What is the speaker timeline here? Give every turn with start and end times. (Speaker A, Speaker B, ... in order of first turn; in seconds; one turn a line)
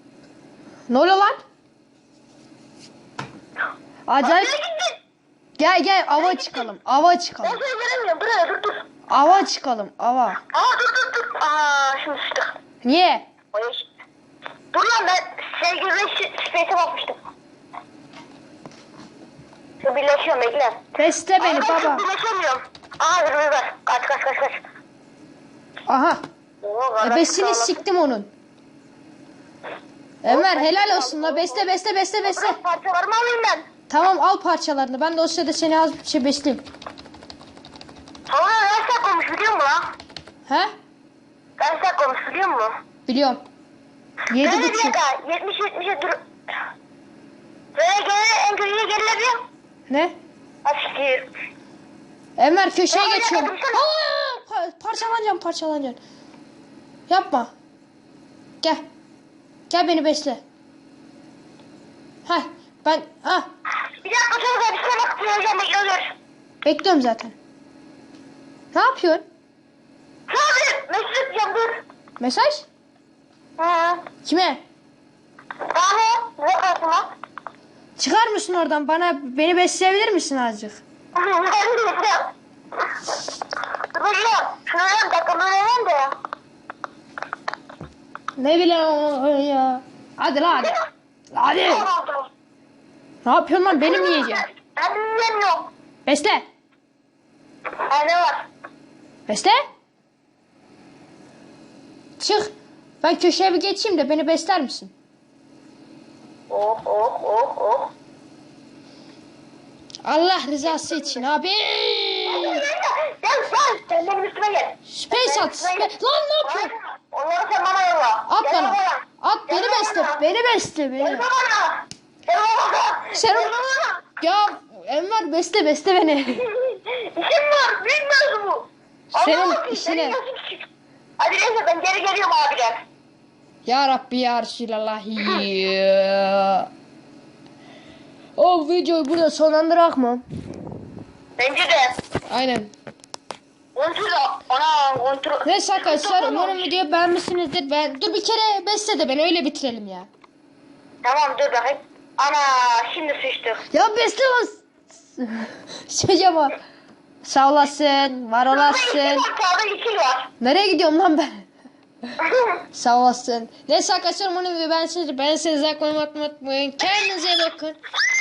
Speaker A: 0.9-1.4
Speaker A: 4.1-4.5
Speaker B: 4.2-5.0
Speaker A: 5.6-7.6
Speaker B: 6.1-6.7
Speaker B: 7.4-8.9
Speaker A: 9.1-10.4
Speaker B: 10.5-12.5
Speaker A: 12.8-13.2
Speaker B: 13.5-13.9
Speaker B: 14.7-17.2
Speaker B: 19.8-20.8
Speaker A: 20.9-22.1
Speaker B: 21.4-24.6
Speaker A: 25.9-26.2
Speaker B: 26.6-27.8
Speaker A: 27.0-28.3
Speaker A: 30.2-32.6
Speaker B: 30.3-31.6
Speaker B: 32.2-33.6
Speaker A: 33.9-36.6
Speaker B: 38.3-39.9
Speaker A: 40.5-40.7
Speaker B: 41.6-42.7
Speaker A: 43.1-43.4
Speaker A: 44.3-45.0
Speaker B: 44.4-46.2
Speaker B: 47.7-49.4
Speaker A: 49.9-50.1
Speaker B: 50.6-51.3
Speaker A: 52.4-56.0
Speaker B: 52.9-53.9
Speaker A: 57.1-57.5
Speaker A: 59.7-60.4
Speaker A: 62.2-63.5
Speaker B: 64.0-66.1
Speaker A: 66.6-67.3
Speaker A: 68.7-69.2
Speaker B: 70.3-71.8
Speaker A: 72.2-72.7
Speaker B: 73.6-74.1
Speaker A: 74.2-74.6
Speaker B: 75.7-77.1
Speaker A: 78.0-80.8
Speaker B: 81.1-82.3
Speaker B: 83.9-86.1
Speaker A: 88.3-90.7
Speaker A: 91.3-91.9
Speaker B: 91.6-92.3
Speaker A: 93.2-94.5
Speaker B: 93.7-95.7
Speaker A: 96.0-96.4
Speaker B: 97.8-98.4
Speaker A: 99.3-99.6
Speaker A: 102.2-102.5
Speaker A: 103.0-104.9
Speaker B: 106.5-107.9
Speaker A: 110.0-112.6
Speaker B: 110.6-111.2
Speaker B: 112.3-120.2
Speaker A: 114.9-116.7
Speaker A: 118.3-121.2
Speaker B: 121.0-124.0
Speaker A: 123.1-123.5
Speaker A: 124.2-126.5
Speaker B: 126.3-130.7
Speaker A: 129.1-130.2
Speaker B: 131.2-132.8
Speaker A: 133.7-136.7
Speaker A: 138.3-140.2
Speaker B: 141.4-142.0
Speaker A: 142.3-142.7
Speaker B: 143.7-146.7
Speaker A: 145.4-150.1
Speaker B: 151.0-153.6
Speaker A: 153.7-156.6
Speaker A: 157.2-159.3
Speaker B: 158.5-160.3
Speaker A: 160.4-161.4
Speaker B: 162.2-162.5
Speaker A: 162.7-167.8